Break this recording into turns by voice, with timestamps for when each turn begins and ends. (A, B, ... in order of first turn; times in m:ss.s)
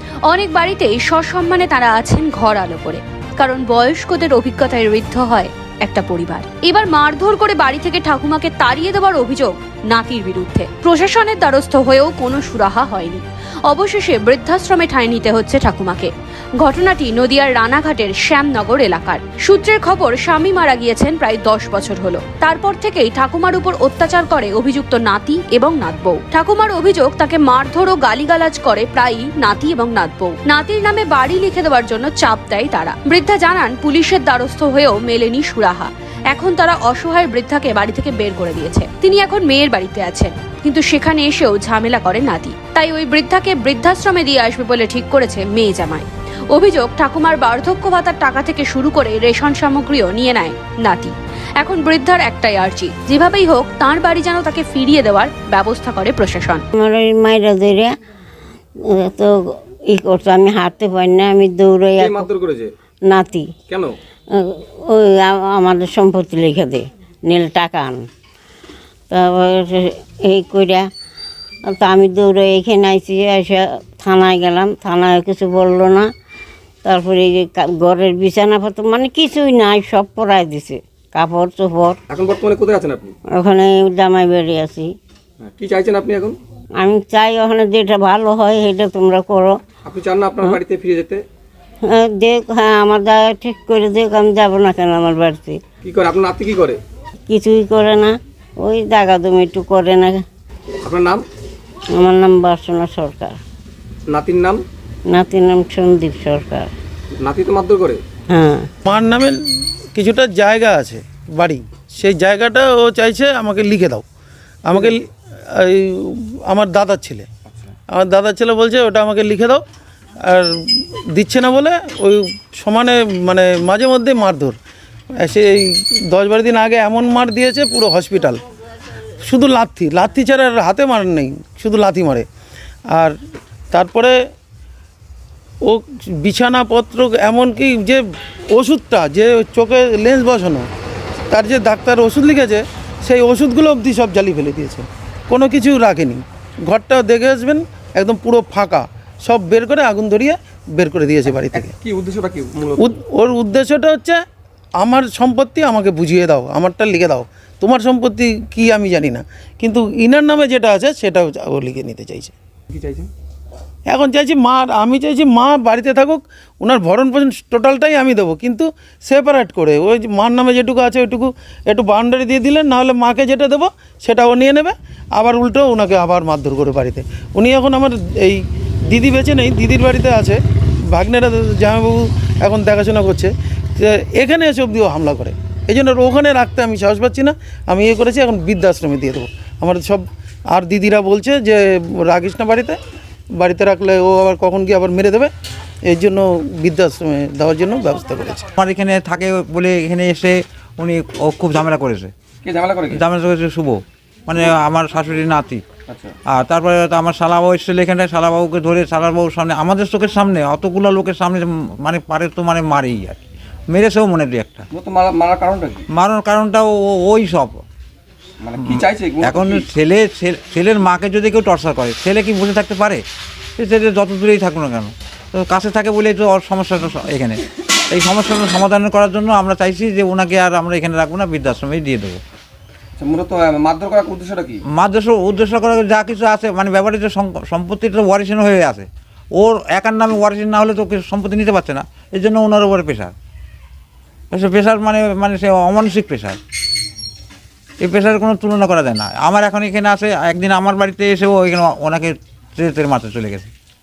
0:00.3-0:56.6 A
0:56.7-0:57.9 B
0:58.9-1:02.3 B
1:02.0-1:02.7 C
1:03.1-1:03.5 B
1:03.7-1:03.9 C
1:04.3-1:08.1 B
1:09.1-1:10.8 B
1:11.7-1:16.1 B
1:16.8-1:22.0 B
1:22.1-1:23.1 C
1:23.3-1:24.9 B
1:25.4-1:26.4 C
1:26.8-1:29.6 B
1:29.8-1:31.2 C
1:31.8-1:35.6 B
1:35.8-1:36.8 C
1:37.3-1:40.2 B
1:40.8-1:41.2 C
1:41.9-1:43.4 B
1:44.1-1:44.6 C
1:45.1-1:46.7 B
1:47.2-1:48.0 C
1:48.3-1:48.7 B
1:48.9-1:49.4 D
1:49.9-1:54.0 D
1:54.6-1:57.3 D
1:57.5-1:57.7 C
1:57.9-1:59.6 D
2:00.2-2:04.6 D
2:05.2-2:08.4 D
2:09.2-2:12.3 D
2:13.7-2:14.2 D
2:15.6-2:18.0 D
2:18.5-2:20.7 D
2:21.3-2:31.7 D
2:31.5-2:32.9 C
2:32.8-2:34.2 D
2:34.8-2:42.3 D
2:42.7-2:43.1 C
2:43.9-3:00.4 D
3:00.9-3:12.8 D
3:13.4-3:15.3 D
3:15.9-3:18.5 D
3:18.5-3:22.1 E
3:22.4-3:23.0 C
3:22.9-3:25.6 E
3:25.9-3:26.1 C
3:26.3-3:34.7 E
3:34.7-3:35.8 C
3:36.0-3:37.6 E
3:38.4-3:39.7 C
3:38.6-3:43.0 E
3:43.6-3:52.2 E
3:53.0-3:54.6 C
3:54.7-4:03.1 E
4:04.3-4:06.4 E
4:07.8-4:13.5 E